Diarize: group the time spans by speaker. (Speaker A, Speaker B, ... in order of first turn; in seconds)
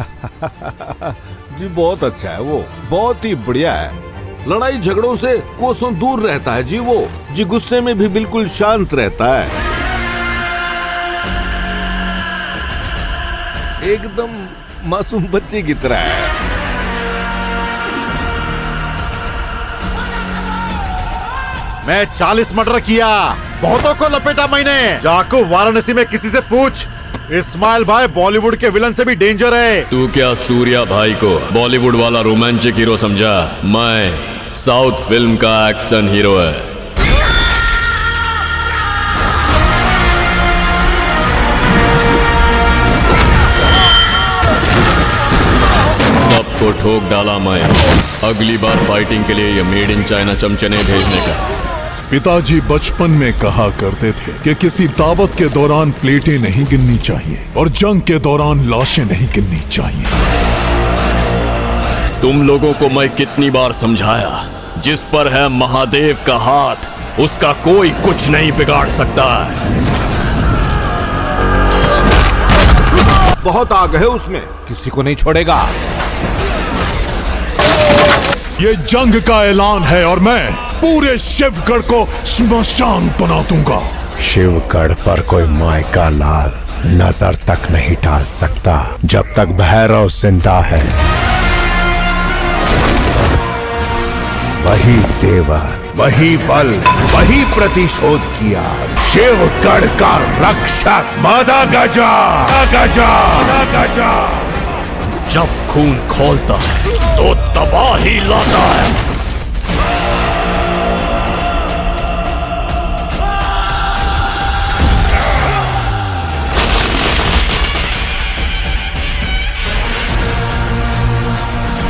Speaker A: 0.2-9.5, 13.8-16.3, 73.4-75.7
Speaker B: 21.9-29.9
Speaker C: 29.9-36.7, 46.2-51.4, 62.2-69.6, 105.3-109.0
Speaker D: 52.1-60.1, 78.6-83.8
Speaker E: 84.2-91.0, 94.6-104.4